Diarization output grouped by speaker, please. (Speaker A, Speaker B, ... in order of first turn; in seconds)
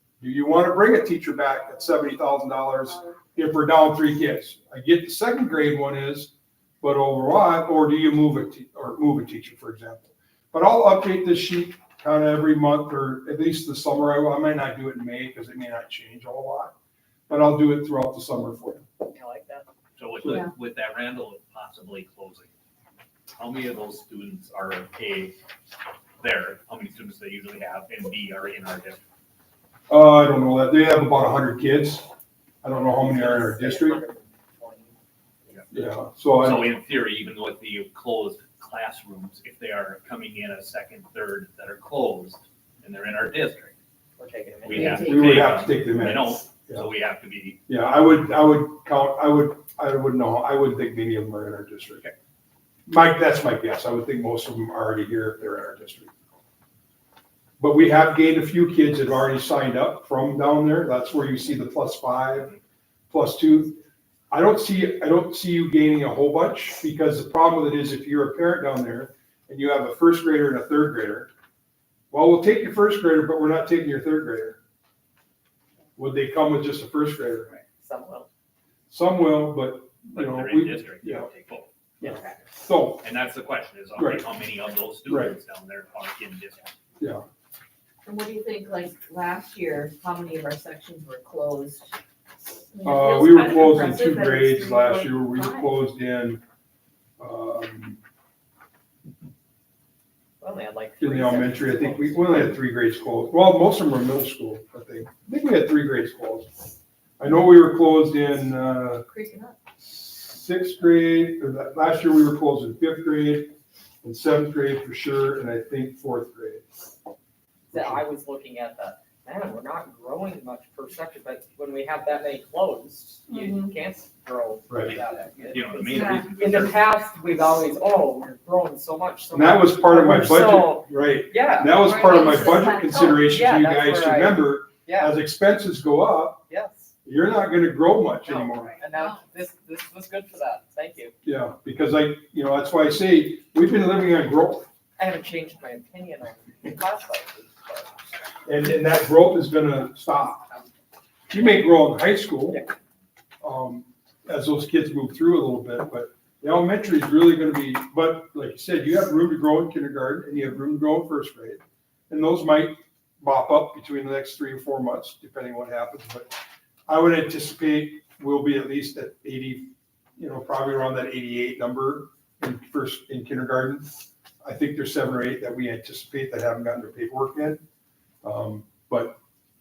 Speaker A: 0.2-16.8, 17.3-18.9, 29.9-32.1, 32.6-34.0, 35.7-36.7, 45.0-46.9, 47.7-52.1, 52.9-56.1, 57.6-62.6, 63.1-71.3, 72.1-74.6, 76.0-77.5, 78.9-81.3, 82.0-83.1, 84.0-84.2, 85.1-85.3, 87.0-87.2, 92.8-96.4, 97.2-98.0, 101.0-106.5, 107.2-109.0, 109.8-116.7, 117.8-118.0, 124.7-125.0, 129.3-136.4, 137.1-138.8, 141.2-144.7, 148.5-150.5, 151.3-152.6, 153.4-166.3, 166.9-177.6, 178.2-179.2
Speaker B: 19.1-19.7, 32.8-35.0, 44.2-45.4, 77.5-78.3, 82.0-82.3, 100.4-102.6, 117.7-135.1, 136.5-136.9, 138.3-141.2, 145.0-148.0
Speaker C: 20.0-22.5, 23.4-25.4, 26.2-29.0, 36.4-43.8, 44.6-47.6, 80.1-81.7, 83.0-86.7, 124.8-126.8
Speaker D: 44.8-45.1, 88.0-91.9, 92.7-95.8, 109.0-109.6, 123.3-123.7, 125.8-126.3, 131.7-133.2, 138.5-139.2